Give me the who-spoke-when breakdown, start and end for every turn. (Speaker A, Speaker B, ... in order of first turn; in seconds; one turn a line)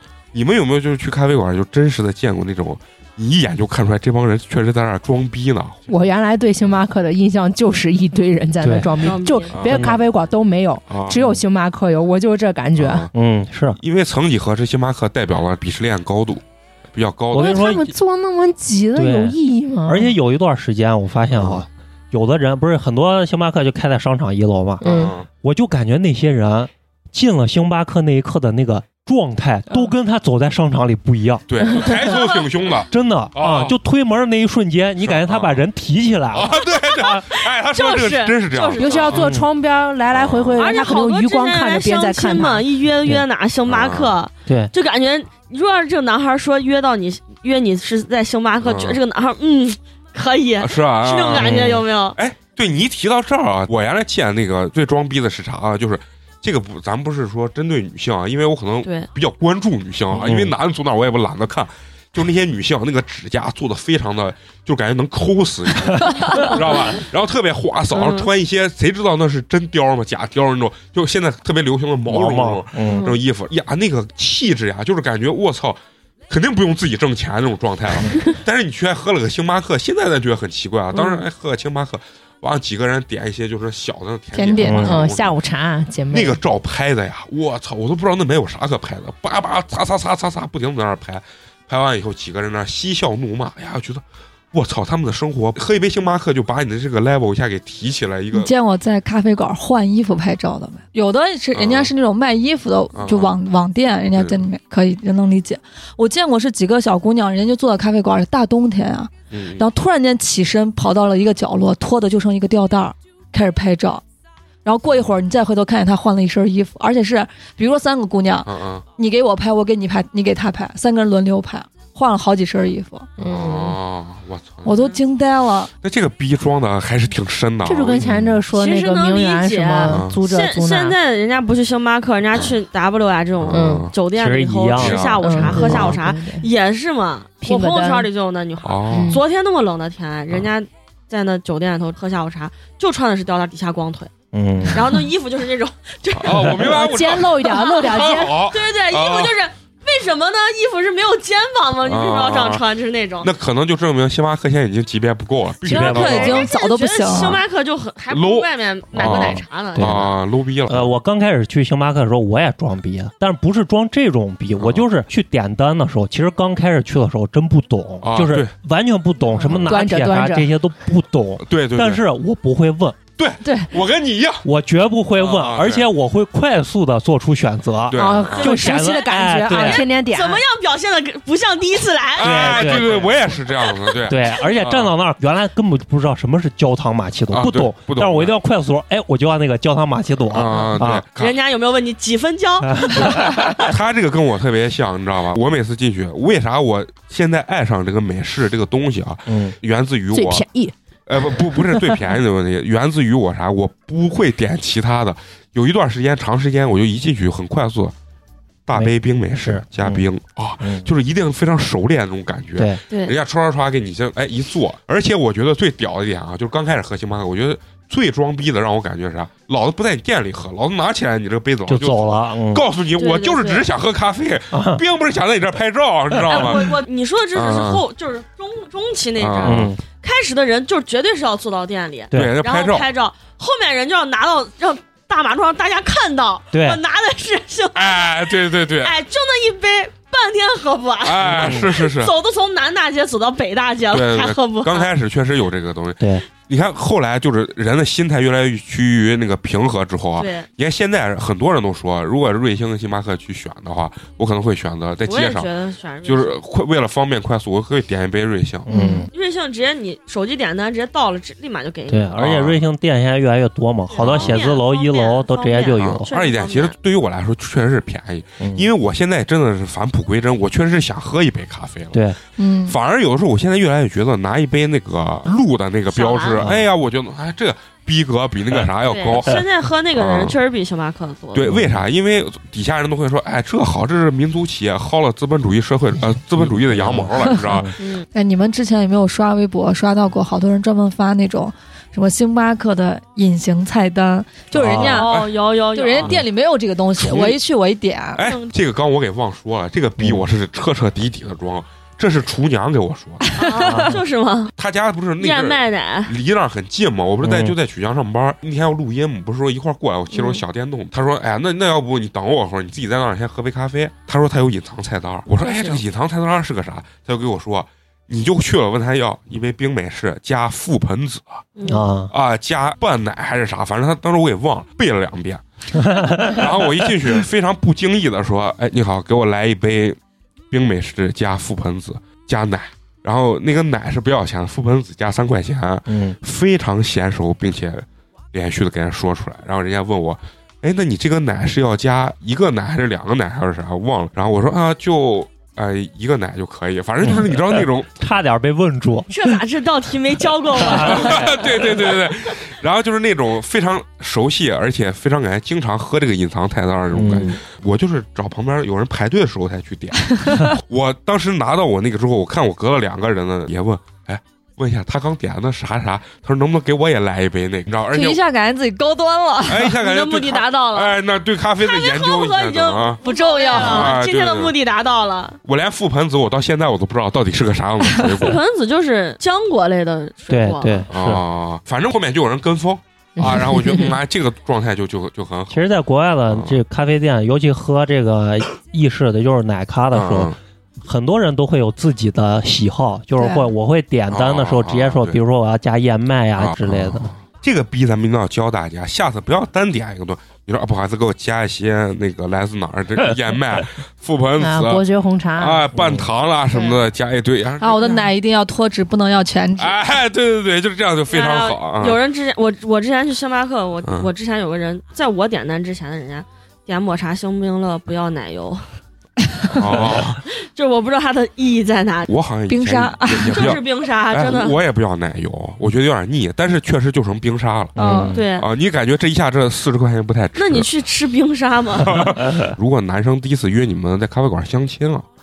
Speaker A: 0.3-6.0
Speaker B: 5.9-13.1
Speaker C: 8.6-8.9
Speaker D: 8.9-9.6
Speaker A: 9.5-9.9
Speaker C: 9.7-10.0
Speaker A: 10.9-11.2
Speaker A: 12.7-13.1
Speaker C: 13.1-13.8
Speaker A: 13.8-17.7
Speaker C: 17.3-17.9
Speaker B: 17.3-20.1
Speaker C: 18.9-24.8
Speaker A: 21.3-21.6
Speaker B: 24.8-25.1
Speaker A: 24.8-25.2
Speaker C: 25.4-31.4
Speaker A: 31.5-33.7
Speaker D: 31.9-32.7
Speaker C: 32.9-36.5
Speaker A: 35.0-35.6
Speaker A: 36.3-39.3
Speaker D: 36.7-39.2
Speaker B: 38.8-42.6
Speaker C: 39.1-39.5
Speaker A: 40.1-40.8
Speaker D: 40.6-52.2
Speaker A: 43.7-44.1
Speaker A: 48.6-49.0
Speaker A: 50.6-51.6
Speaker C: 51.3-51.8
Speaker A: 52.1-75.8
Speaker C: 60.1-60.5
Speaker D: 66.3-66.8
Speaker D: 67.9-68.3
Speaker C: 72.1-73.0
Speaker D: 72.8-73.2
Speaker A: 76.3-85.3
Speaker D: 80.9-81.2
Speaker E: 84.3-85.0
Speaker C: 84.6-85.0
Speaker B: 84.6-86.4
Speaker A: 86.1-98.5
Speaker E: 98.3-114.0
Speaker A: 101.5-101.9
Speaker A: 102.9-103.3
Speaker A: 104.1-104.4
Speaker A: 109.3-109.7
Speaker E: 114.6-123.1
Speaker A: 118.4-118.8
Speaker A: 123.2-125.0
Speaker B: 123.2-123.8
Speaker E: 124.6-125.7
Speaker A: 125.8-128.1
Speaker B: 127.6-130.9
Speaker C: 128.0-128.3
Speaker D: 128.5-144.1
Speaker A: 129.8-130.1
Speaker A: 133.4-133.9
Speaker B: 133.5-133.9
Speaker C: 134.1-135.5
Speaker A: 134.8-136.0
Speaker B: 135.2-136.4
Speaker B: 137.4-138.1
Speaker A: 138.6-139.2
Speaker B: 138.9-139.2
Speaker C: 144.3-144.8
Speaker D: 144.7-153.3
Speaker A: 146.2-149.3
Speaker B: 146.4-148.4
Speaker A: 151.8-152.6
Speaker A: 153.2-156.5
Speaker E: 155.7-157.4
Speaker D: 155.7-160.2
Speaker C: 155.7-156.2
Speaker A: 158.1-160.9
Speaker C: 158.9-160.0
Speaker C: 160.7-173.0
Speaker A: 164.6-164.8
Speaker A: 168.0-168.5
Speaker B: 169.3-170.5
Speaker A: 169.4-169.8
Speaker A: 171.4-172.0
Speaker A: 173.2-174.4
Speaker B: 173.4-173.7
Speaker C: 174.4-179.8
Speaker A: 175.1-175.9
Speaker A: 177.9-178.6
Speaker B: 177.9-180.4
Speaker D: 178.4-183.0
Speaker A: 182.2-184.9
Speaker C: 182.2-183.2
Speaker C: 184.1-191.0
Speaker A: 187.3-188.3
Speaker A: 190.3-191.3
Speaker D: 191.2-193.5
Speaker C: 192.7-193.4
Speaker A: 193.4-200.4
Speaker C: 199.3-199.5
Speaker B: 200.1-202.0
Speaker A: 201.1-207.9
Speaker A: 208.7-226.7
Speaker C: 208.7-210.0
Speaker C: 210.6-210.9
Speaker D: 212.9-213.2
Speaker C: 221.7-222.7
Speaker D: 223.0-223.7
Speaker C: 224.5-224.8
Speaker D: 226.2-244.9
Speaker A: 227.3-227.8
Speaker A: 229.2-229.7
Speaker C: 229.4-229.8
Speaker A: 232.1-232.9
Speaker C: 236.5-236.8
Speaker A: 237.7-238.9
Speaker A: 241.0-242.1
Speaker C: 241.2-241.6
Speaker A: 243.9-255.5
Speaker C: 246.0-246.2
Speaker D: 250.2-250.5
Speaker D: 255.0-256.4
Speaker A: 256.0-258.7
Speaker C: 258.7-259.1
Speaker B: 258.8-259.0
Speaker D: 259.1-262.2
Speaker C: 261.9-266.1
Speaker A: 262.2-262.6
Speaker D: 263.9-266.8
Speaker A: 264.0-264.4
Speaker A: 265.8-272.0
Speaker C: 268.4-268.7
Speaker C: 271.9-272.2
Speaker E: 272.4-272.8
Speaker A: 272.6-279.4
Speaker D: 275.9-276.4
Speaker D: 278.8-281.5
Speaker A: 279.9-280.4
Speaker A: 281.3-287.7
Speaker C: 281.5-281.8
Speaker C: 286.1-287.7
Speaker D: 287.8-288.1
Speaker E: 288.1-295.1
Speaker C: 294.5-295.0
Speaker D: 294.7-296.1
Speaker A: 295.1-295.3
Speaker E: 295.7-298.2
Speaker A: 297.0-297.4
Speaker A: 298.1-303.4
Speaker D: 298.2-298.5
Speaker D: 303.4-304.5
Speaker C: 303.6-303.9
Speaker A: 304.6-321.4
Speaker D: 305.2-306.1
Speaker C: 307.2-307.5
Speaker D: 310.1-310.4
Speaker D: 315.4-315.8
Speaker D: 321.6-321.8
Speaker C: 321.7-322.1
Speaker A: 322.1-325.4
Speaker C: 325.7-326.9
Speaker A: 326.1-330.0
Speaker A: 330.5-347.9
Speaker C: 335.9-336.2
Speaker C: 347.0-349.4
Speaker D: 349.1-351.8
Speaker C: 350.6-351.3
Speaker A: 350.7-368.2
Speaker C: 356.9-357.3
Speaker E: 367.9-369.8
Speaker A: 369.4-374.5
Speaker D: 369.8-371.0
Speaker D: 371.6-375.4
Speaker E: 373.0-373.9
Speaker A: 375.4-378.4
Speaker D: 378.1-380.9
Speaker C: 380.3-381.2
Speaker A: 380.9-385.7
Speaker B: 383.2-383.9
Speaker C: 385.5-397.1
Speaker A: 386.3-386.6
Speaker A: 389.9-390.4
Speaker E: 393.2-393.5
Speaker A: 394.1-395.2
Speaker A: 396.4-404.8
Speaker B: 404.4-405.7
Speaker A: 405.4-408.0
Speaker C: 405.7-406.1
Speaker E: 407.6-409.8
Speaker A: 409.6-412.0
Speaker D: 411.1-418.6
Speaker A: 413.8-414.1
Speaker A: 419.5-420.2
Speaker D: 420.3-422.1
Speaker A: 422.1-427.8
Speaker E: 422.5-423.5
Speaker D: 423.3-424.6
Speaker E: 427.8-428.2
Speaker C: 427.8-428.2
Speaker D: 428.1-428.5
Speaker A: 428.4-430.7
Speaker D: 430.3-432.2
Speaker A: 431.8-435.1